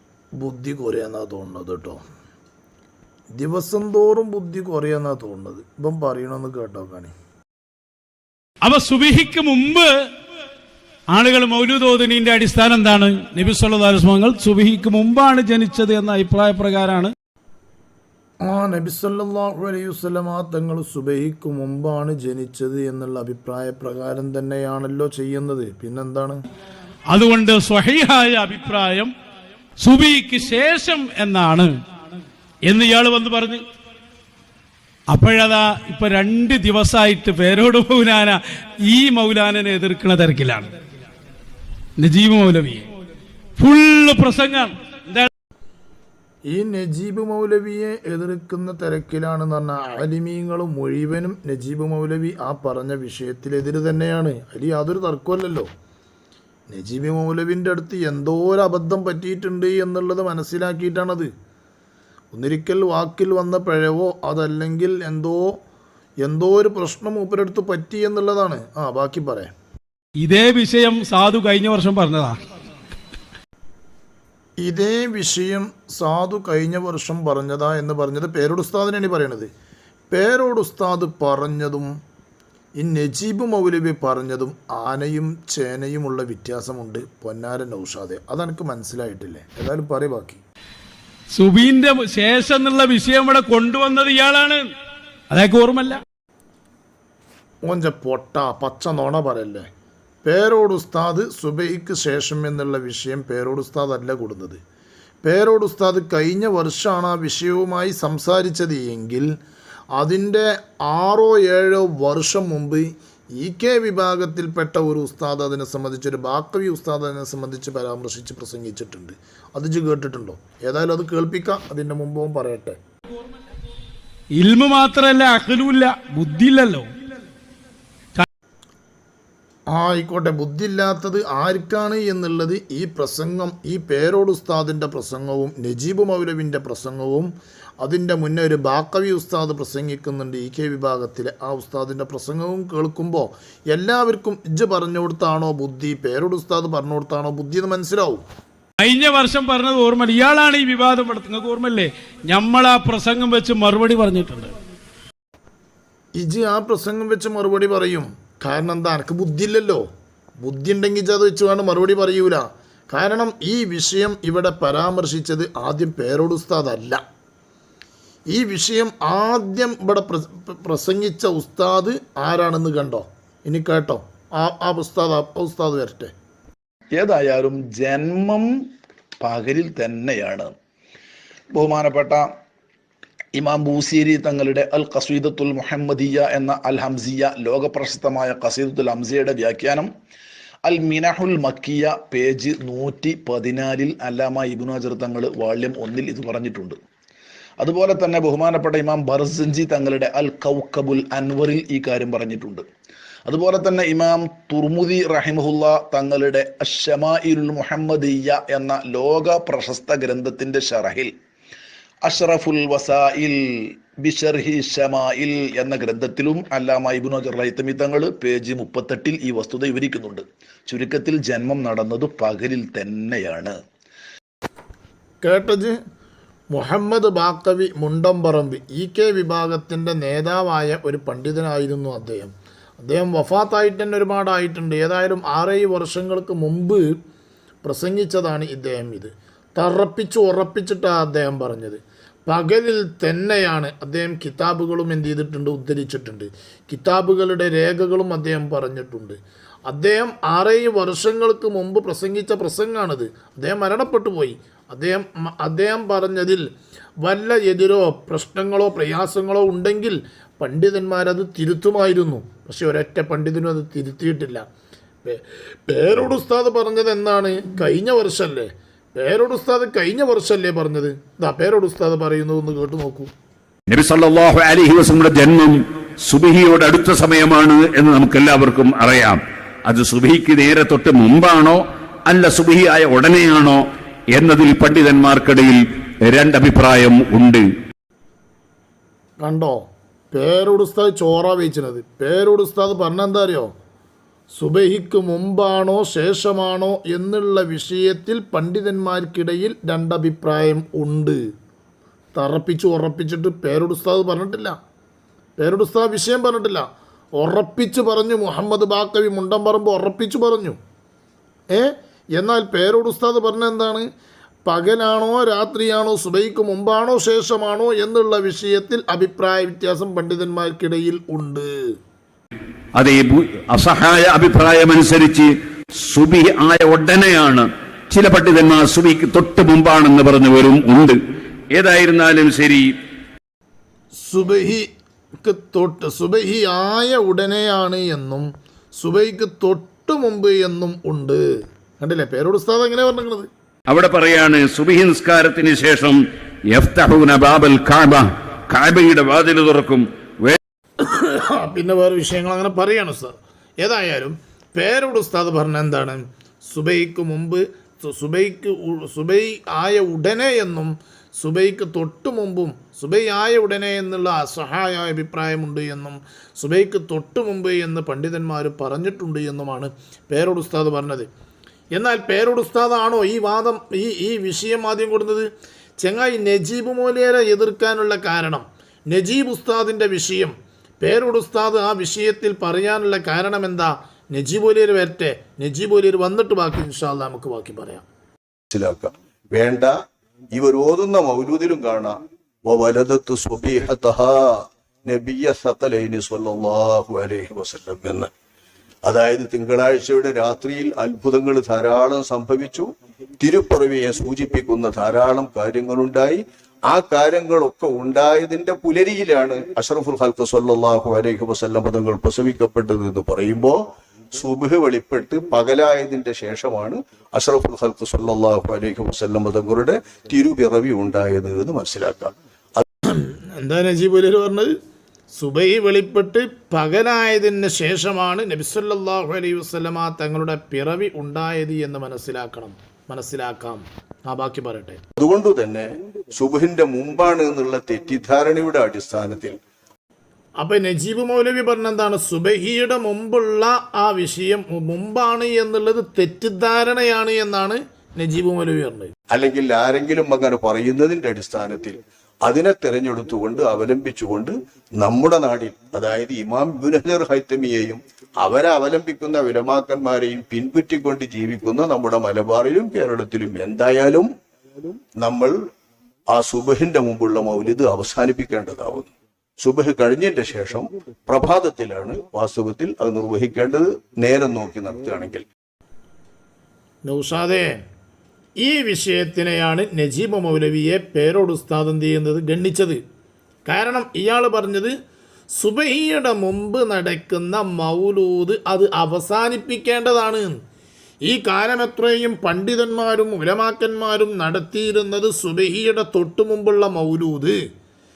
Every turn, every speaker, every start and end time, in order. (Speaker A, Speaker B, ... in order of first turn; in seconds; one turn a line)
Speaker A: 0.4-2.0
Speaker A: 3.3-7.1
Speaker B: 8.6-9.9
Speaker B: 11.1-17.1
Speaker A: 18.4-26.4
Speaker B: 27.1-29.1
Speaker B: 29.8-31.7
Speaker B: 32.7-33.6
Speaker B: 35.1-40.7
Speaker B: 42.0-42.9
Speaker B: 43.6-45.3
Speaker A: 46.5-55.7
Speaker A: 56.7-61.3
Speaker A: 62.3-65.6
Speaker A: 66.2-69.5
Speaker B: 70.2-72.4
Speaker A: 74.6-79.5
Speaker A: 80.1-81.9
Speaker A: 82.8-90.4
Speaker B: 91.3-94.7
Speaker B: 95.3-96.0
Speaker A: 97.6-99.7
Speaker A: 100.2-104.6
Speaker A: 105.2-109.3
Speaker A: 110.0-122.8
Speaker B: 124.4-126.9
Speaker A: 129.7-137.3
Speaker A: 137.8-148.2
Speaker B: 148.8-154.5
Speaker A: 156.2-159.8
Speaker A: 160.4-167.0
Speaker A: 168.3-176.1
Speaker C: 176.9-178.4
Speaker C: 179.2-180.5
Speaker C: 181.5-182.2
Speaker C: 183.3-189.9
Speaker C: 190.7-196.8
Speaker C: 197.6-202.6
Speaker C: 203.3-211.1
Speaker C: 212.1-213.3
Speaker C: 214.0-223.5
Speaker A: 225.2-225.8
Speaker A: 226.5-236.8
Speaker A: 237.6-256.4
Speaker A: 257.0-264.4
Speaker A: 265.0-273.1
Speaker D: 273.7-283.6
Speaker D: 284.1-287.5
Speaker A: 289.2-289.6
Speaker A: 290.1-293.5
Speaker A: 294.4-301.2
Speaker A: 302.1-304.6
Speaker A: 305.4-306.7
Speaker A: 307.2-310.6
Speaker A: 311.5-313.9
Speaker A: 314.4-321.5
Speaker D: 322.8-325.3
Speaker D: 325.9-331.0
Speaker D: 331.5-332.7
Speaker A: 334.1-334.6
Speaker A: 335.2-338.3
Speaker A: 338.8-341.2
Speaker A: 341.8-343.3
Speaker D: 343.7-350.4
Speaker A: 350.8-371.1
Speaker A: 371.7-375.3
Speaker A: 375.8-387.8
Speaker E: 388.5-389.7
Speaker E: 390.3-398.1
Speaker E: 398.8-402.7
Speaker E: 403.2-413.6
Speaker E: 414.1-422.6
Speaker A: 422.9-424.5
Speaker A: 425.1-434.8
Speaker E: 435.0-439.4
Speaker A: 440.4-448.9
Speaker E: 449.1-464.1
Speaker E: 465.0-465.3
Speaker E: 466.1-468.9
Speaker E: 469.4-475.2
Speaker A: 476.8-477.5
Speaker A: 478.4-482.8
Speaker A: 483.4-484.7
Speaker A: 485.3-490.4
Speaker A: 491.0-497.4